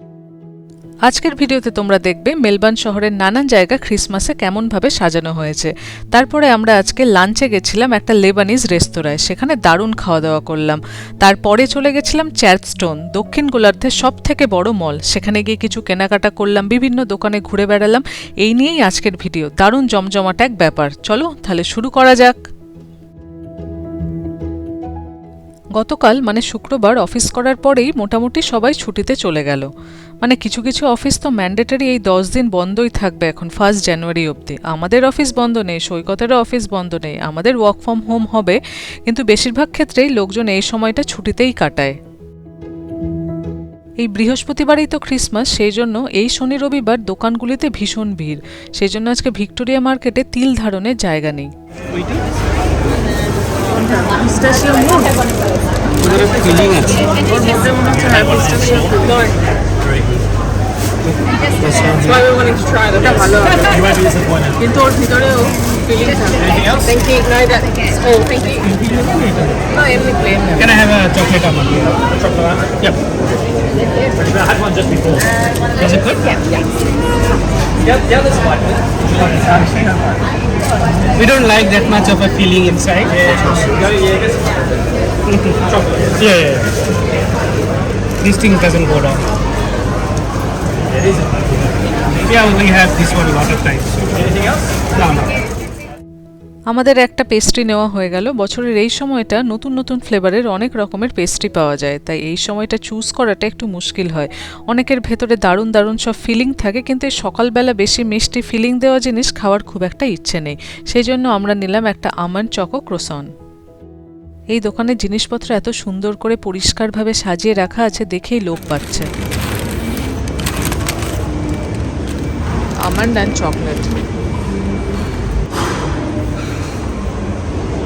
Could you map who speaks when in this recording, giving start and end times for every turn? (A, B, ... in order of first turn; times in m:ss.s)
0:01.1-0:22.5 A
0:25.8-0:29.7 A
0:30.2-0:42.0 A
0:44.0-0:51.5 A
0:56.0-0:57.0 B
0:57.1-0:59.2 C
1:01.1-1:02.2 B
1:02.1-1:03.9 C
1:04.6-1:08.6 C
1:08.7-1:09.6 B
1:09.7-1:10.6 C
1:10.6-1:13.0 B
1:15.8-1:16.2 B
1:19.2-1:19.8 B
1:21.2-1:23.7 B
1:25.3-1:26.8 B
1:28.2-1:29.2 B
1:32.1-1:34.4 B
1:34.9-1:35.4 B
1:36.7-1:53.3 A
1:54.5-1:59.1 A
2:03.0-2:03.8 A